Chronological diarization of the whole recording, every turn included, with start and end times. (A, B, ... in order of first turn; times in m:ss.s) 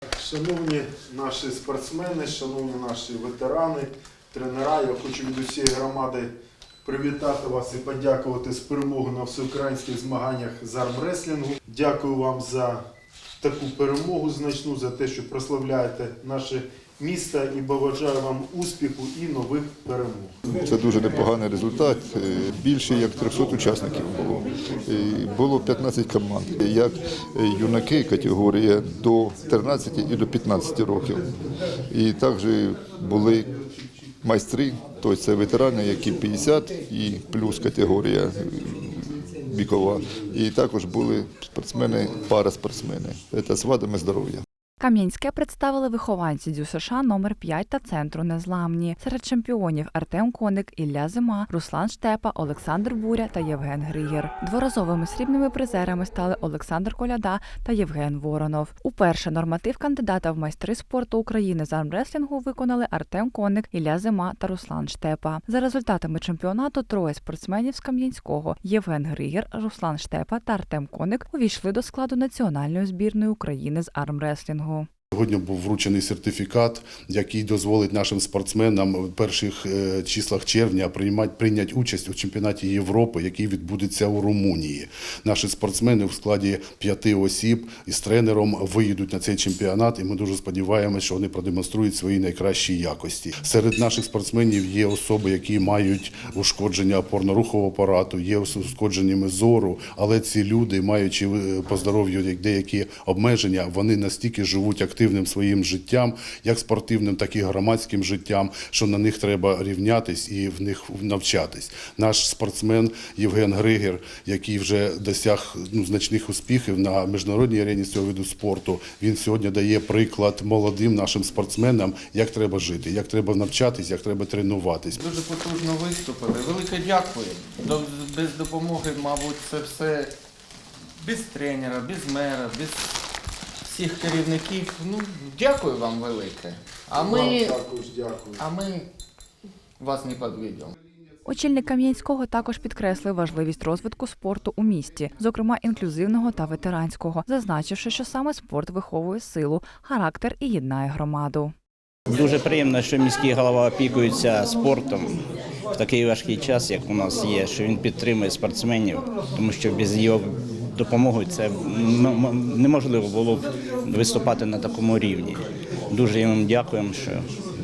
0:00.2-0:06.3 A
0:06.8-0:12.8 A
0:13.4-0:20.4 A
0:20.5-0:31.2 B
0:31.9-0:33.5 B
0:34.2-0:44.4 B
0:44.8-1:14.9 C
1:15.1-2:05.0 D
2:05.0-2:10.2 E
2:11.0-2:12.9 E
2:13.6-2:17.6 E
2:16.9-2:18.5 A
2:18.4-2:18.9 E
2:19.8-2:20.7 E
2:21.3-2:31.5 C
2:32.1-2:35.2 F
2:35.8-2:47.2 F